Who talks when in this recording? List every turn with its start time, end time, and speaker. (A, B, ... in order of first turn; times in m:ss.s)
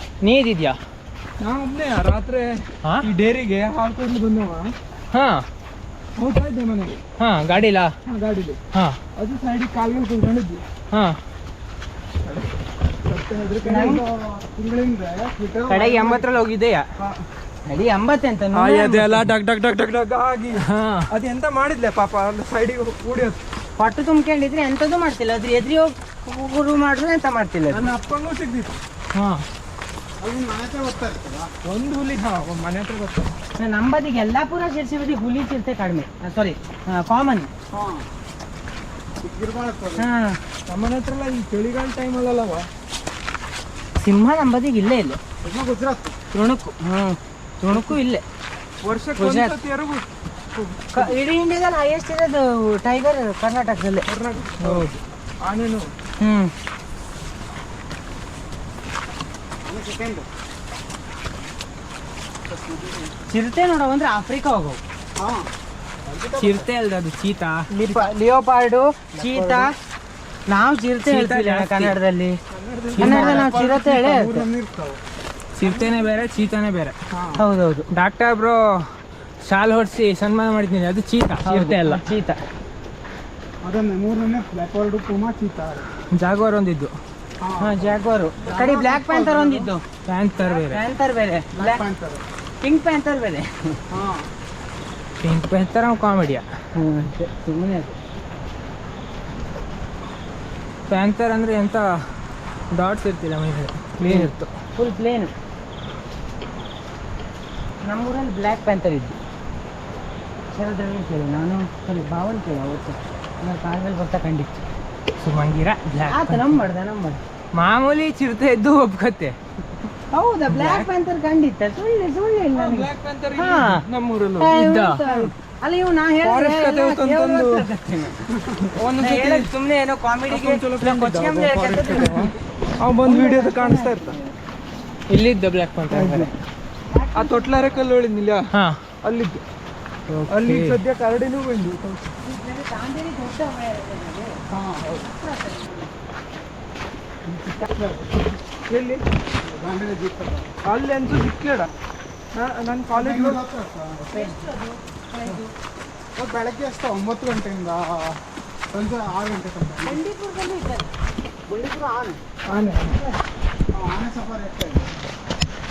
0:00.2-0:00.8 A
0:01.4-0:04.7 B
0:05.1-0:05.4 A
0:06.2-0:07.0 B
0:07.2-0:07.9 A
0:08.1-0:08.6 B
0:09.2-0:10.6 B
0:10.9-0:11.2 A
0:13.0-0:14.0 B
0:13.6-0:14.0 C
0:13.8-0:16.3 D
0:15.7-0:16.8 A
0:17.6-0:19.3 C
0:18.5-0:23.4 B
0:20.6-0:21.1 A
0:23.8-0:27.9 C
0:27.7-0:28.8 B
0:29.1-0:29.4 A
0:30.2-0:31.5 D
0:31.6-0:33.3 B
0:33.6-0:37.5 C
0:37.7-0:38.0 D
0:39.2-0:40.1 D
0:40.0-0:40.4 C
0:40.7-0:42.7 B
0:44.0-0:45.2 C
0:45.4-0:46.2 D
0:46.3-0:48.2 C
0:48.8-0:50.0 B
0:49.2-0:49.5 C
0:50.9-0:54.1 C
0:54.1-0:55.9 B
0:56.2-0:56.5 C
0:59.6-1:00.3 D
1:02.4-1:03.1 D
1:03.3-1:04.8 C
1:05.2-1:05.5 D
1:06.0-1:06.7 D
1:06.4-1:07.6 A
1:07.7-1:09.8 C
1:09.2-1:09.6 D
1:10.5-1:12.4 C
1:11.0-1:12.0 A
1:12.5-1:12.9 B
1:12.9-1:13.4 A
1:12.9-1:15.0 D
1:13.0-1:14.4 C
1:15.6-1:16.9 A
1:15.6-1:15.9 B
1:17.1-1:17.4 D
1:17.4-1:17.9 C
1:17.9-1:18.8 A
1:19.4-1:22.0 A
1:21.4-1:22.4 C
1:23.6-1:25.8 D
1:26.1-1:26.9 A
1:27.4-1:29.7 D
1:27.6-1:29.8 C
1:30.0-1:30.8 A
1:30.4-1:31.8 C
1:31.5-1:32.2 D
1:32.6-1:33.8 C
1:33.9-1:34.3 D
1:35.2-1:36.4 A
1:36.8-1:38.0 C
1:40.9-1:42.0 A
1:42.7-1:44.5 A
1:44.0-1:44.3 B
1:44.8-1:45.3 C
1:47.8-1:49.2 C
1:50.5-1:54.6 C
1:55.2-1:56.6 A
1:56.0-1:57.2 C
1:57.6-1:59.4 A
2:00.1-2:03.8 C
2:00.5-2:00.9 A
2:02.5-2:05.2 B
2:04.4-2:08.2 C
2:04.5-2:05.0 A
2:06.2-2:07.6 B
2:08.6-2:09.5 B
2:08.9-2:12.3 C
2:10.3-2:14.2 B
2:13.0-2:14.4 C
2:15.1-2:16.3 A
2:16.0-2:16.3 B
2:16.8-2:17.9 C
2:17.1-2:18.5 B
2:18.5-2:18.8 A
2:19.0-2:19.4 B
2:20.1-2:20.8 A
2:20.3-2:22.2 B
2:22.2-2:24.4 C
2:24.5-2:24.9 D
2:24.8-2:25.1 B
2:25.1-2:25.9 C
2:27.5-2:28.2 D
2:28.7-2:29.0 B
2:29.4-2:30.5 D
2:30.6-2:31.7 B
2:32.3-2:33.4 B
2:32.9-2:34.4 D
2:34.1-2:35.5 C
2:36.2-2:38.2 D
2:38.7-2:40.0 D
2:39.8-2:40.9 C
2:41.5-2:42.2 D
2:42.5-2:43.0 B
2:42.6-2:43.2 C
2:43.7-2:44.9 D